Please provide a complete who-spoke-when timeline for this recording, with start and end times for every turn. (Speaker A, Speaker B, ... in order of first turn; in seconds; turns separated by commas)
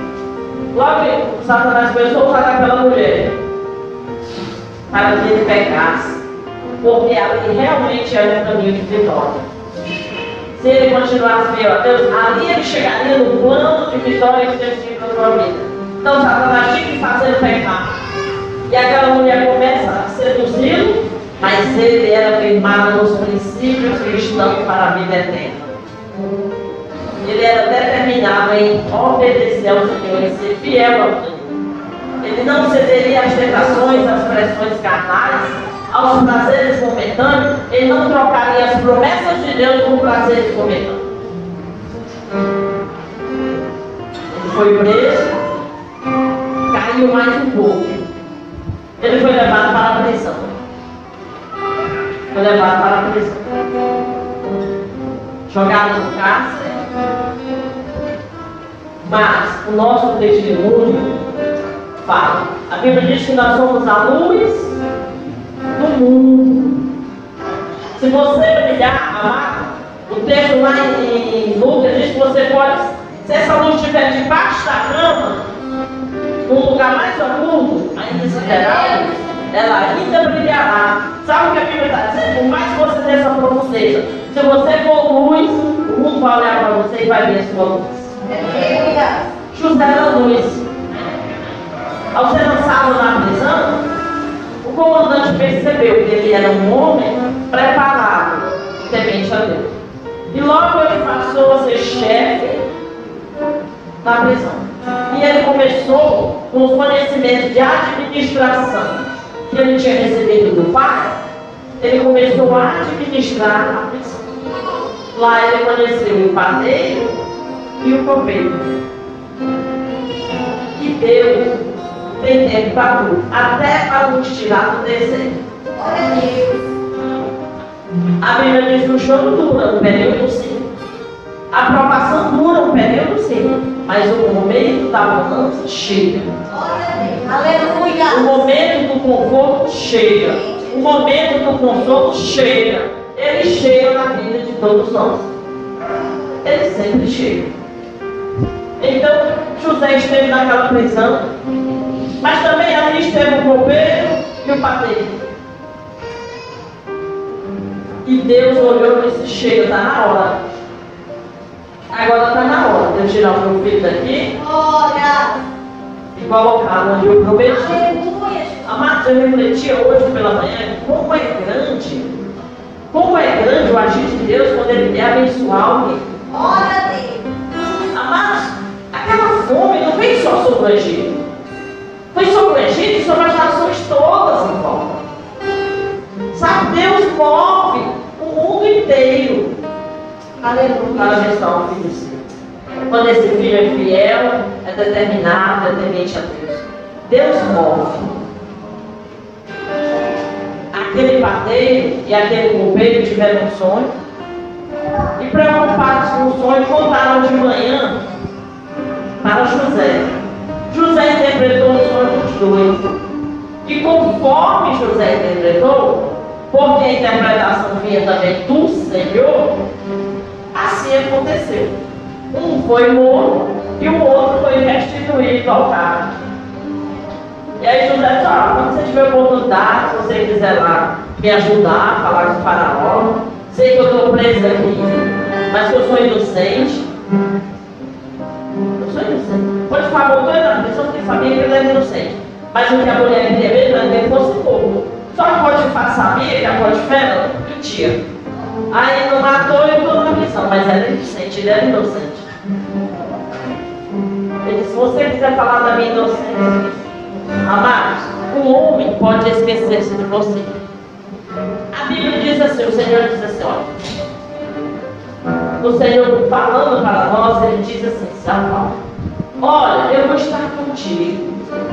Speaker A: 0.7-3.4, Speaker A: 4.9-6.2, Speaker A: 6.8-9.4, Speaker A: 10.5-17.9, Speaker A: 18.7-25.8, Speaker A: 27.2-31.5, Speaker A: 32.2-41.0, Speaker A: 44.3-45.4, Speaker A: 46.7-48.0, Speaker A: 49.0-50.5, Speaker A: 52.3-53.5, Speaker A: 55.5-56.8, Speaker A: 59.0-61.2, Speaker A: 62.0-64.7, Speaker A: 65.7-66.8, Speaker A: 68.0-75.4, Speaker A: 76.4-88.1, Speaker B: 88.3-89.2, Speaker A: 89.5-90.7, Speaker A: 92.1-93.8, Speaker A: 94.6-99.8, Speaker A: 100.3-102.7, Speaker A: 104.0-111.2, Speaker A: 111.8-114.6, Speaker A: 115.1-117.1, Speaker A: 117.8-118.7, Speaker A: 120.7-121.6, Speaker A: 122.2-125.4, Speaker B: 125.8-126.6, Speaker A: 128.2-130.7, Speaker A: 131.5-136.3, Speaker B: 136.5-138.4, Speaker A: 138.1-145.3, Speaker A: 146.4-147.5, Speaker A: 148.8-151.3, Speaker A: 152.2-155.2, Speaker A: 158.0-160.4, Speaker A: 161.9-164.3, Speaker B: 164.4-165.4, Speaker A: 166.1-167.9, Speaker B: 167.5-168.7, Speaker A: 168.6-172.1, Speaker A: 172.9-176.1, Speaker B: 176.3-177.2, Speaker A: 177.7-181.2, Speaker A: 182.1-185.0, Speaker A: 186.3-189.6, Speaker B: 190.4-191.2, Speaker A: 190.9-192.2, Speaker A: 192.9-198.2, Speaker A: 200.7-203.9, Speaker A: 205.2-208.0, Speaker A: 209.2-210.1, Speaker A: 210.7-213.0, Speaker A: 213.6-219.6, Speaker A: 220.5-221.8, Speaker A: 222.3-226.1, Speaker A: 227.6-236.8, Speaker A: 238.8-248.0, Speaker A: 248.7-252.2, Speaker A: 254.4-256.8, Speaker A: 257.4-260.6, Speaker A: 261.7-264.0, Speaker A: 265.6-268.8, Speaker A: 269.4-271.5